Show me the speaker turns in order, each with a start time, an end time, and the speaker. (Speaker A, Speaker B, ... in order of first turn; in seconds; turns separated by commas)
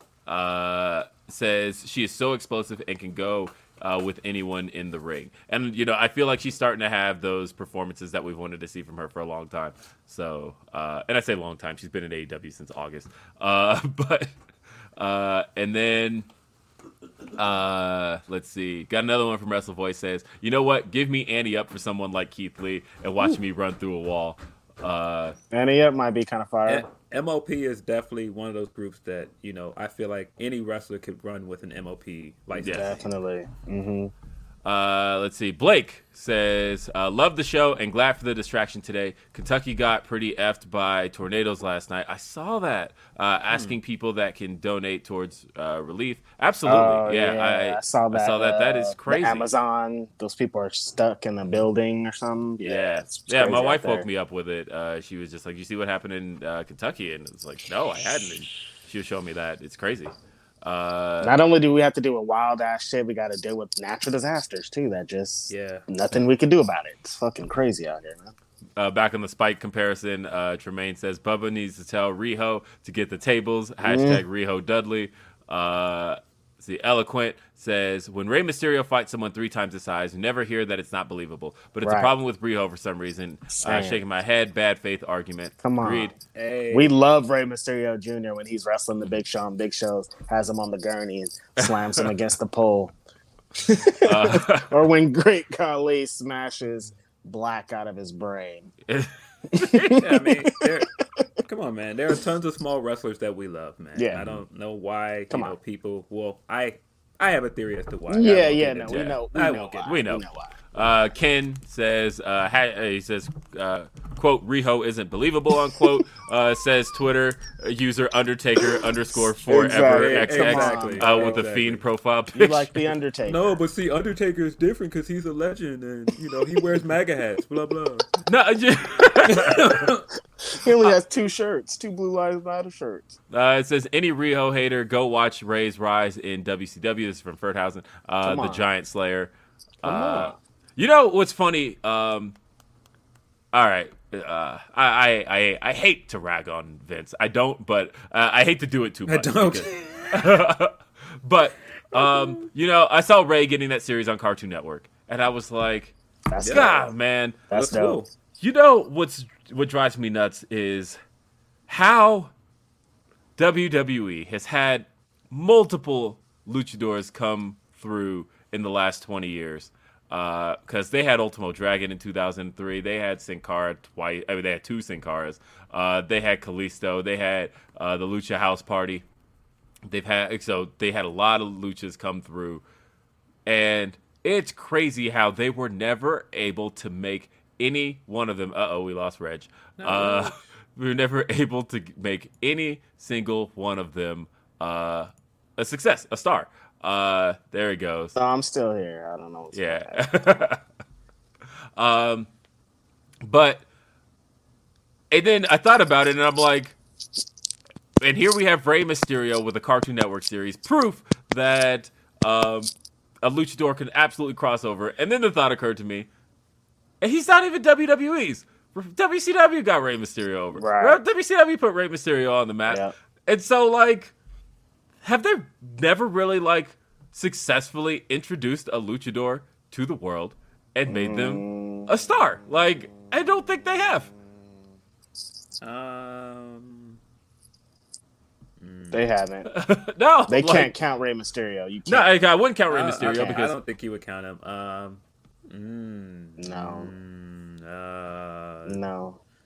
Speaker A: 0.2-14.3, Speaker A: 14.9-16.3, Speaker A: 17.3-25.4, Speaker B: 25.5-26.8, Speaker C: 26.7-33.0, Speaker A: 32.5-33.0, Speaker B: 32.6-34.1, Speaker A: 34.6-49.5, Speaker C: 43.5-43.8, Speaker B: 46.6-54.1, Speaker A: 52.6-61.4, Speaker B: 61.2-68.3, Speaker C: 65.5-65.8, Speaker A: 68.8-86.1, Speaker B: 73.8-74.2, Speaker B: 81.8-82.1, Speaker B: 83.5-84.0, Speaker B: 85.6-86.1, Speaker C: 86.3-86.9, Speaker B: 86.7-92.9, Speaker A: 91.6-92.1, Speaker B: 93.6-98.7, Speaker A: 94.0-94.7, Speaker A: 98.9-100.1, Speaker B: 99.5-100.6, Speaker C: 100.0-100.9, Speaker C: 101.5-109.8, Speaker B: 104.0-104.2, Speaker A: 104.1-104.4, Speaker B: 108.1-110.5, Speaker A: 108.9-109.2, Speaker A: 109.8-122.9, Speaker B: 119.5-121.4, Speaker C: 119.5-121.8, Speaker B: 122.3-123.4, Speaker C: 123.2-128.1, Speaker A: 128.2-129.9, Speaker C: 129.3-130.0, Speaker B: 130.5-133.2, Speaker A: 133.3-139.3, Speaker B: 138.2-138.6, Speaker B: 139.8-140.3, Speaker A: 139.8-142.3, Speaker A: 143.5-157.4, Speaker C: 149.1-150.2, Speaker C: 151.9-152.4, Speaker B: 156.3-156.9, Speaker C: 156.4-156.8, Speaker B: 157.5-158.0, Speaker C: 157.5-158.1, Speaker A: 158.4-161.0, Speaker A: 161.7-162.3, Speaker A: 163.4-179.1, Speaker A: 179.9-182.6, Speaker A: 183.4-198.1, Speaker C: 189.8-190.5, Speaker B: 198.1-200.2, Speaker A: 199.5-200.6, Speaker A: 201.8-202.3, Speaker A: 203.2-203.6, Speaker A: 205.1-206.8, Speaker A: 208.0-212.7, Speaker A: 213.2-216.1, Speaker A: 217.0-224.1, Speaker B: 220.6-221.0, Speaker B: 222.7-222.9, Speaker A: 225.0-234.1, Speaker B: 230.9-231.9, Speaker C: 235.6-237.0, Speaker C: 238.6-239.0, Speaker B: 238.9-239.5, Speaker A: 239.5-240.7, Speaker B: 240.3-242.1, Speaker A: 241.9-243.6, Speaker C: 242.7-248.8, Speaker B: 243.0-243.5, Speaker B: 246.4-246.9, Speaker B: 248.7-249.2